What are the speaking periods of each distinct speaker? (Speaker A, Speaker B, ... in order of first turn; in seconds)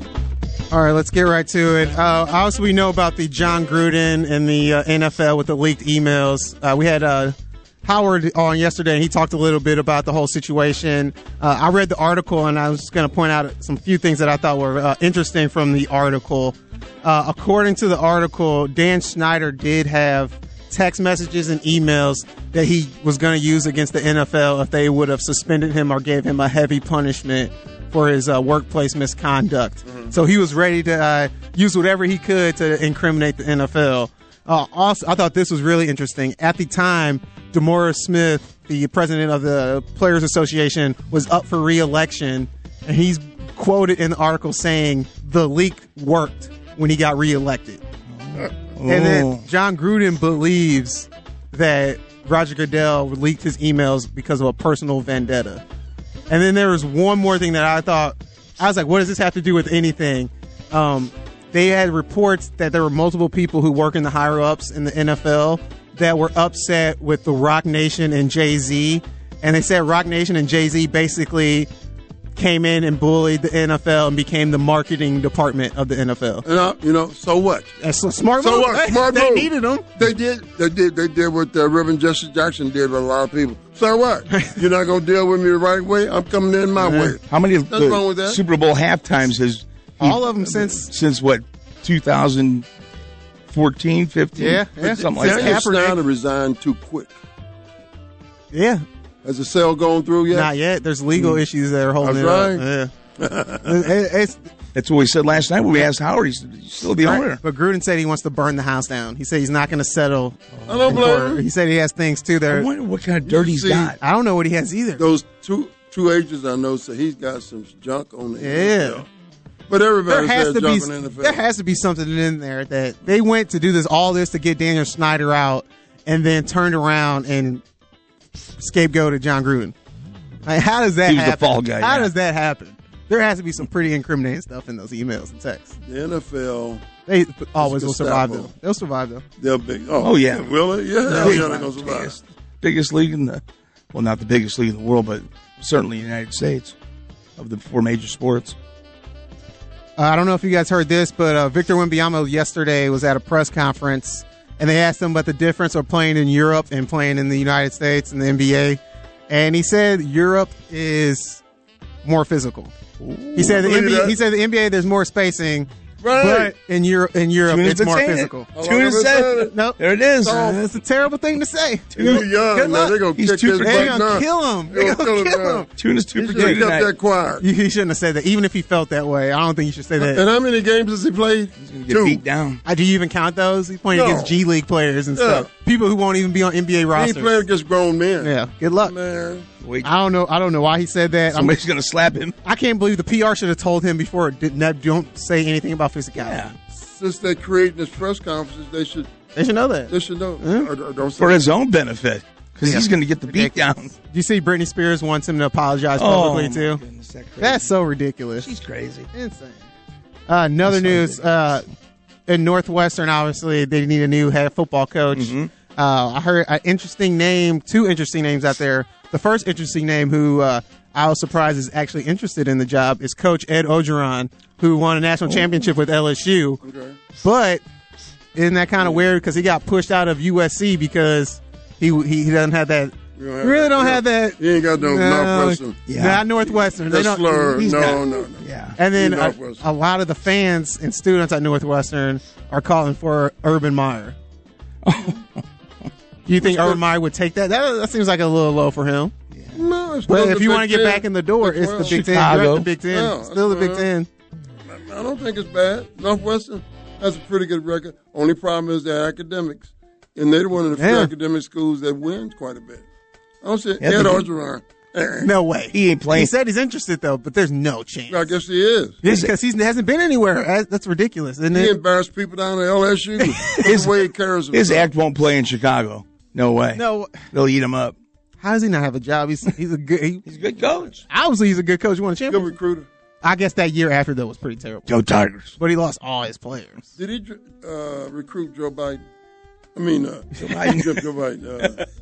Speaker A: 0.7-47.8, 48.8-55.6, 56.3-71.7, 72.3-76.4, 77.8-79.9, 86.8-87.1, 90.0-90.9, 94.3-96.0, 98.5-98.8, 100.3-102.9, 103.6-104.4, 107.0-112.7, 114.0-115.0, 118.4-119.0, 120.1-127.6, 128.6-129.7, 130.4-135.7, 137.1-139.2, 141.0-141.8, 150.0-161.4, 162.0-162.7, 163.3-168.5, 169.5-173.0, 173.6-175.7, 176.4-176.6, 177.4-180.2, 182.6-187.4, 188.2-188.9, 189.8-191.6, 192.4-196.5, 199.3-200.7, 202.6-206.8, 207.4-208.5, 209.1-209.7, 210.3-211.7, 212.3-226.6, 227.2-227.6, 228.3-237.9, 238.8-244.2, 246.2-249.1, 250.1-254.1, 260.8-261.1, 265.2-268.4, 269.0-271.7, 273.2-273.6, 276.7-277.2, 278.4-280.2, 281.1-282.5, 283.2-284.9, 285.6-286.9
Speaker B: 48.2-49.4, 87.2-92.7, 93.5-95.6, 104.7-107.4, 110.5-111.0, 112.5-114.0, 131.0-132.1, 140.0-140.5, 141.1-146.8, 147.4-148.6, 163.0-163.6, 167.4-170.4, 171.9-172.2, 173.1-174.1, 175.7-176.9, 181.6-182.6, 189.6-189.9, 191.3-192.3, 196.2-196.5, 201.2-203.9, 205.9-207.7, 208.4-209.1, 210.6-211.2, 215.1-215.5, 235.9-236.2, 237.6-238.8, 244.8-245.4, 249.3-249.6, 251.8-252.7, 263.8-264.3, 265.7-266.3, 269.0-269.3, 273.6-273.9, 274.5-277.9, 280.2-281.0, 284.9-285.6, 290.4-291.1
Speaker C: 76.4-77.7, 78.4-88.4, 94.8-97.2, 99.2-100.5, 102.0-102.6, 103.2-103.8, 110.7-111.4, 113.2-114.0, 115.0-119.1, 119.7-121.4, 135.8-136.8, 137.6-138.5, 139.4-142.1, 163.5-164.2, 166.0-166.5, 168.6-169.5, 170.2-170.6, 171.9-175.6, 176.2-177.4, 180.0-182.2, 183.9-184.4, 185.1-185.5, 186.9-189.4, 196.7-199.1, 199.9-201.4, 226.6-227.0, 228.8-229.1, 233.2-235.8, 236.4-239.6, 246.4-246.8, 249.5-252.1, 252.9-253.9, 254.7-262.8, 263.4-265.3, 268.1-269.0, 271.5-274.9, 282.3-282.9, 287.0-289.0, 289.8-291.9